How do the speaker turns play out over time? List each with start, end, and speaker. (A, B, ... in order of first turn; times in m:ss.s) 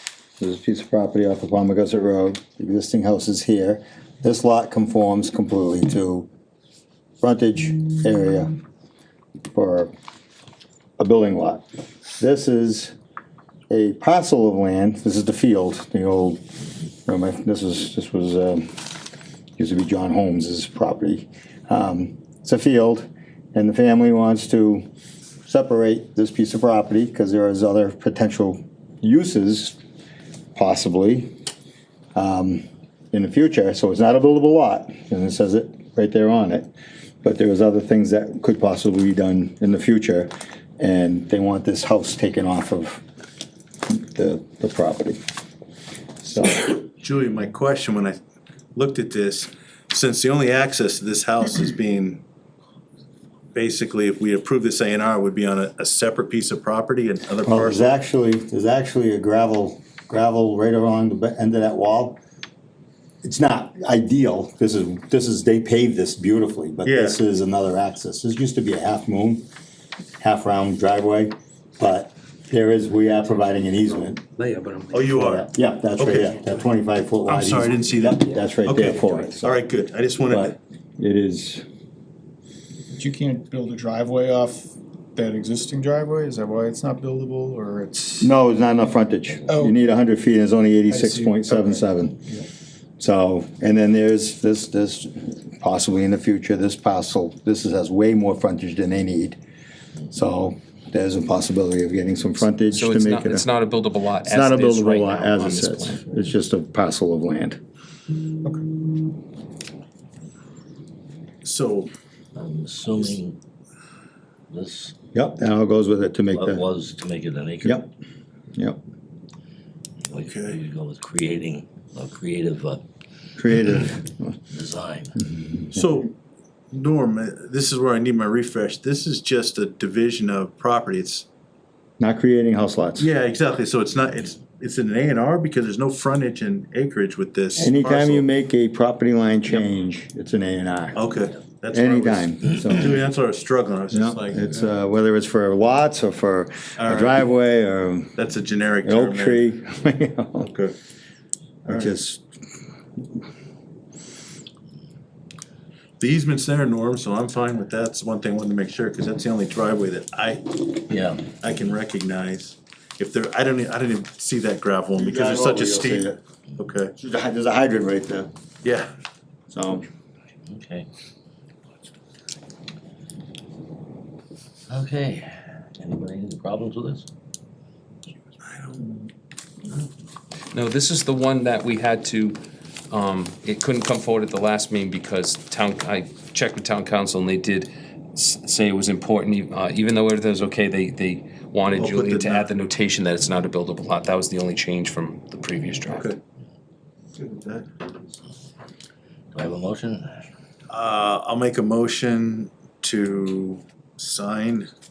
0:00.4-0:06.3 A
0:07.2-0:08.5 A
0:09.5-0:09.9 A
0:11.0-0:11.6 A
0:12.2-0:12.9 A
0:13.7-0:16.4 A
0:17.0-0:18.7 A
0:19.6-0:24.8 A
0:25.4-0:29.8 A
0:30.5-0:31.3 A
0:32.1-0:36.7 A
0:37.2-0:43.0 A
0:43.9-0:45.2 A
0:46.2-0:46.7 A
0:47.0-0:48.2 B
0:48.7-0:52.2 B
0:53.5-0:57.9 B
0:57.4-1:02.2 A
1:03.2-1:09.4 A
1:06.8-1:07.2 B
1:10.2-1:14.2 A
1:14.4-1:15.1 C
1:14.9-1:15.5 B
1:15.1-1:19.6 A
1:16.0-1:16.5 B
1:17.2-1:20.6 B
1:20.2-1:21.6 A
1:22.9-1:28.3 D
1:28.2-1:32.2 A
1:29.5-1:29.8 D
1:30.9-1:31.8 D
1:33.0-1:39.4 A
1:40.1-1:43.5 A
1:42.7-1:46.1 C
1:44.2-1:47.6 A
1:51.4-1:51.9 B
1:52.3-1:53.4 E
1:54.5-1:54.9 E
1:55.1-1:56.6 A
1:56.3-1:57.8 E
1:57.6-1:57.9 A
1:58.5-1:58.8 A
2:00.0-2:02.8 E
2:00.2-2:00.6 B
2:03.4-2:04.4 A
2:04.5-2:05.2 E
2:05.2-2:05.9 A
2:05.7-2:06.1 B
2:06.7-2:11.3 B
2:12.0-2:13.1 A
2:13.0-2:18.3 B
2:17.6-2:21.0 A
2:20.9-2:24.7 B
2:21.7-2:23.0 A
2:23.9-2:28.2 A
2:26.8-2:27.2 B
2:28.2-2:29.5 B
2:28.8-2:30.5 A
2:30.4-2:30.7 B
2:31.6-2:32.2 A
2:31.7-2:31.9 B
2:36.0-2:40.6 B
2:40.9-2:41.3 E
2:41.3-2:46.9 B
2:44.9-2:46.2 A
2:46.9-2:48.3 A
2:48.6-2:48.9 B
2:49.5-2:49.9 A
2:50.4-2:50.9 E
2:54.7-2:57.1 E
2:58.4-2:58.9 B
3:00.5-3:02.4 C
3:02.9-3:16.1 C
3:11.7-3:12.5 B
3:15.9-3:16.2 B
3:17.1-3:17.8 B
3:19.3-3:20.2 E
3:20.7-3:24.7 B